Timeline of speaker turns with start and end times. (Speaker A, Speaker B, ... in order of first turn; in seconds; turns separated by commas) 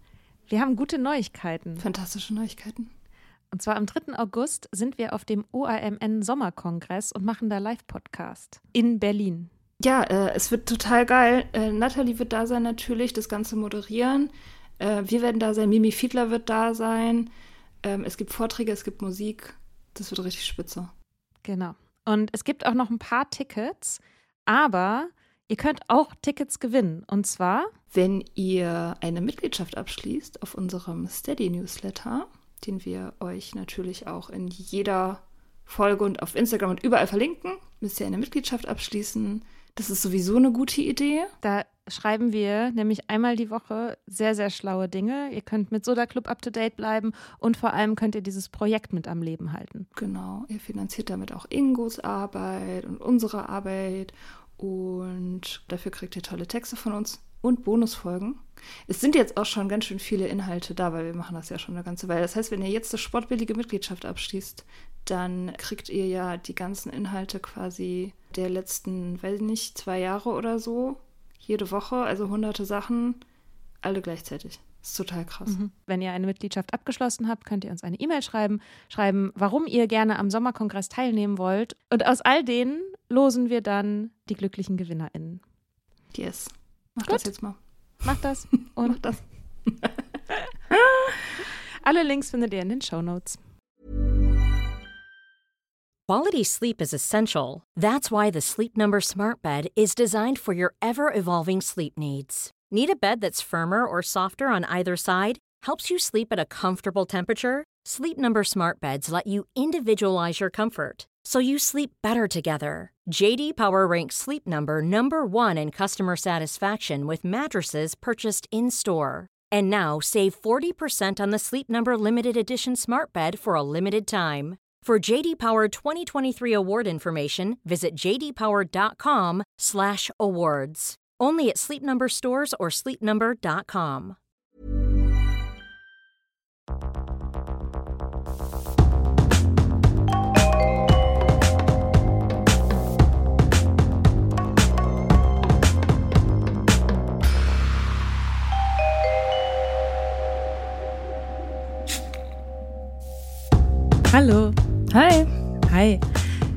Speaker A: 0.5-1.9, Speaker B: 1.8-2.9, Speaker A: 3.5-9.5, Speaker B: 9.8-17.3, Speaker B: 17.8-20.9, Speaker A: 21.4-27.7, Speaker B: 27.9-41.3, Speaker A: 41.4-49.9, Speaker B: 50.0-73.2, Speaker B: 73.8-75.6, Speaker A: 75.5-85.4, Speaker B: 86.1-87.6, Speaker A: 88.0-89.2, Speaker B: 90.7-91.1, Speaker A: 91.8-93.4, Speaker C: 96.1-134.2, Speaker A: 154.1-154.6, Speaker B: 154.9-155.3, Speaker A: 155.7-156.0